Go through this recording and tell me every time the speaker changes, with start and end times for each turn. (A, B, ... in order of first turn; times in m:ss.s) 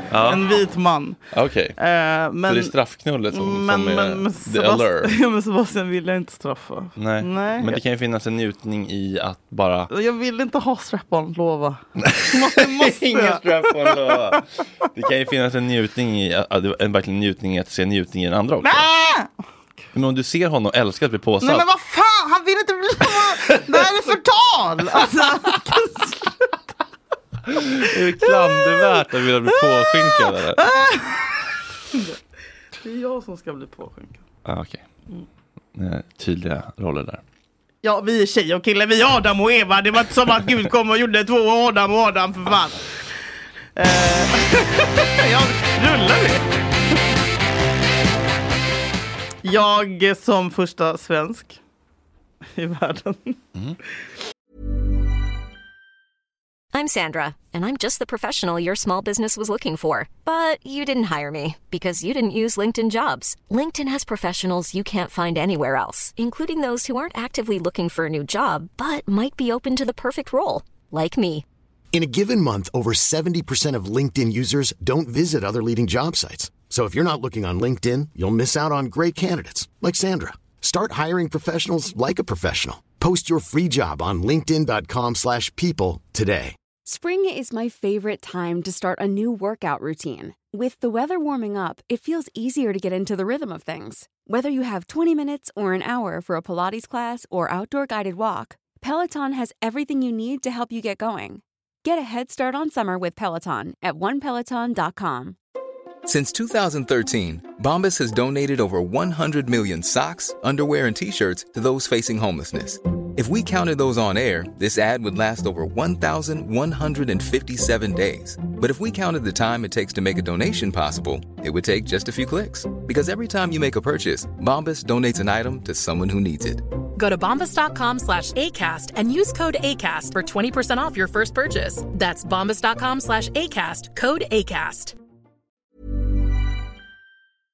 0:00.1-0:00.5 A
0:00.2-0:01.2 B
0:01.3-0:01.8 A
0:01.8-0:02.7 B
0:02.5-0:05.2 A
0:03.3-0:07.8 B
0:07.0-0:09.9 A
0:09.9-0:14.4 B
0:12.0-0:18.9 A
0:18.6-0:19.3 B
0:19.9-0:21.7 A
0:21.4-0:26.5 B
0:23.4-0:24.1 A
0:27.5-0:30.6 A
0:27.8-0:32.2 B
0:32.8-0:34.2 B
0:34.4-0:34.8 A
0:35.8-0:37.2 A
0:37.8-0:42.8 B
0:43.8-0:46.4 B
0:49.4-0:51.6 B
0:52.6-0:53.4 B
0:56.7-1:11.4 C
1:11.9-1:26.6 D
1:26.8-1:45.4 E
1:46.0-2:06.6 F
2:07.0-2:15.0 G